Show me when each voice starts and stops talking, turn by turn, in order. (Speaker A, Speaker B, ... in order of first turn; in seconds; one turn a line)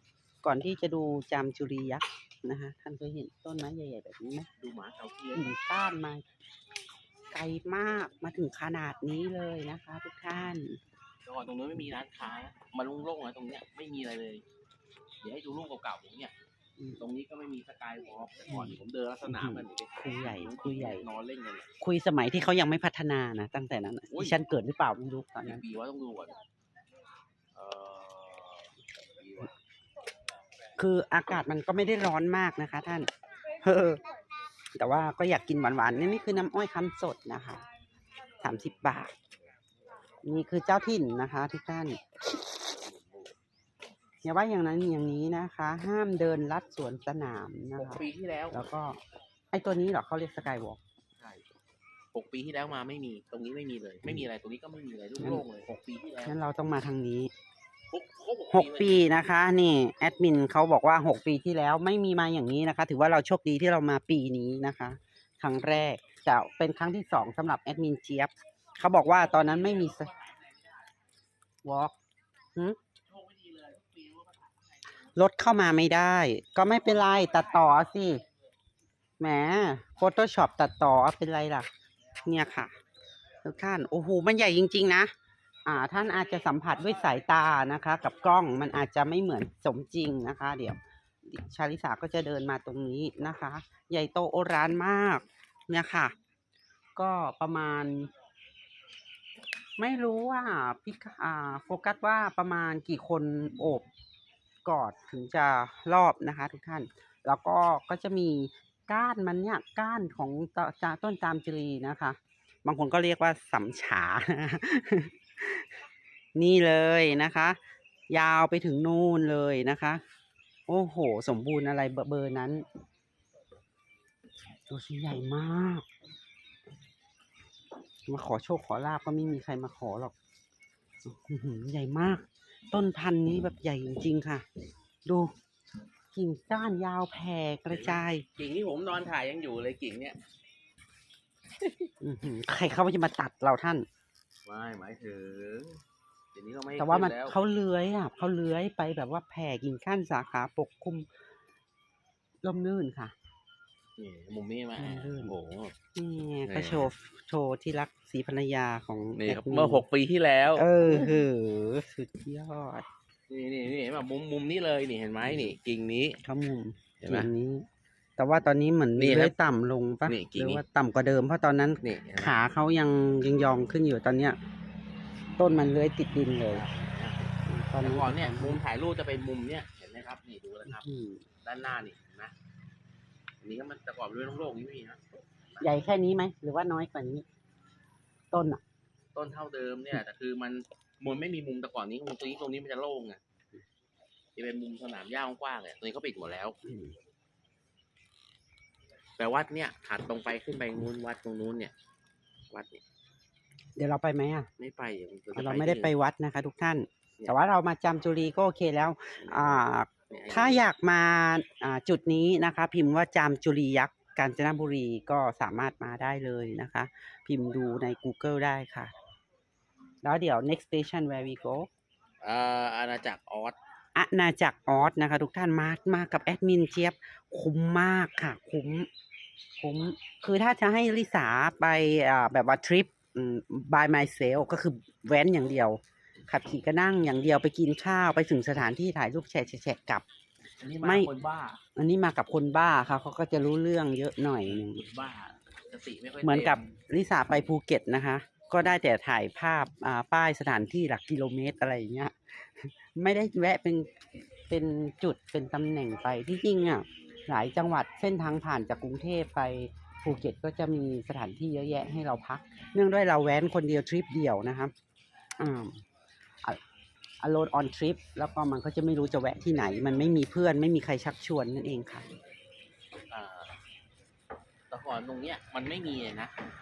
Speaker A: 0.4-4.5
Speaker B: 4.6-5.5
Speaker A: 5.3-6.2
Speaker A: 7.3-10.8
Speaker B: 11.2-14.4
Speaker B: 15.2-16.3
Speaker B: 17.0-21.7
Speaker A: 18.5-21.1
Speaker A: 21.8-25.6
Speaker B: 24.1-24.4
Speaker B: 25.4-26.4
Speaker B: 27.5-29.5
Speaker A: 30.8-33.1
Speaker A: 33.6-34.0
Speaker A: 34.7-37.6
Speaker A: 38.4-39.1
Speaker B: 38.4-38.8
Speaker A: 40.2-42.0
Speaker B: 42.7-43.3
Speaker A: 44.2-49.0
Speaker B: 47.7-48.6
Speaker A: 49.5-50.8
Speaker B: 52.1-56.4
Speaker A: 56.2-57.3
Speaker B: 57.9-59.0
Speaker A: 58.5-70.1
Speaker B: 69.0-70.9
Speaker A: 71.6-71.9
Speaker B: 73.1-74.6
Speaker A: 75.2-78.2
Speaker A: 79.2-81.7
Speaker A: 82.2-82.7
Speaker A: 83.4-85.1
Speaker A: 85.7-96.1
Speaker A: 97.0-98.1
Speaker A: 99.8-103.8
Speaker A: 104.6-115.7
Speaker A: 116.3-117.6
Speaker A: 118.1-120.0
Speaker A: 120.7-122.6
Speaker A: 124.7-125.8
Speaker A: 128.1-130.1
Speaker A: 131.0-134.4
Speaker A: 135.0-135.3
Speaker A: 136.1-138.2
Speaker B: 137.7-140.2
Speaker B: 141.6-141.8
Speaker A: 142.0-143.8
Speaker B: 144.4-145.8
Speaker B: 146.3-147.4
Speaker A: 146.8-151.1
Speaker A: 152.4-153.1
Speaker B: 154.0-155.7
Speaker A: 154.8-155.3
Speaker A: 155.9-159.8
Speaker B: 156.5-156.9
Speaker B: 159.2-161.2
Speaker A: 160.5-162.8
Speaker B: 163.3-166.2
Speaker A: 166.2-167.7
Speaker B: 167.0-167.3
Speaker A: 168.2-174.4
Speaker B: 169.0-169.3
Speaker B: 170.1-170.6
Speaker B: 171.8-172.4
Speaker A: 175.4-176.6
Speaker B: 176.5-180.8
Speaker A: 177.5-178.6
Speaker A: 180.7-181.2
Speaker B: 181.4-182.3
Speaker B: 183.4-185.7
Speaker A: 185.6-187.2
Speaker A: 188.3-188.6
Speaker B: 189.1-193.2
Speaker B: 194.3-196.6
Speaker A: 196.7-196.9
Speaker B: 199.2-201.7
Speaker B: 202.5-202.8
Speaker A: 203.8-204.5
Speaker B: 204.6-205.9
Speaker A: 205.3-218.9
Speaker B: 209.2-210.6
Speaker A: 220.0-221.7
Speaker B: 222.2-223.6
Speaker A: 223.9-228.9
Speaker A: 229.6-240.0
Speaker B: 240.6-241.6
Speaker A: 240.8-241.1
Speaker A: 241.8-244.8
Speaker B: 244.4-246.7
Speaker A: 246.2-253.9
Speaker A: 254.5-264.7
Speaker A: 265.4-265.8
Speaker A: 267.2-272.0
Speaker B: 273.1-273.6
Speaker B: 274.7-276.3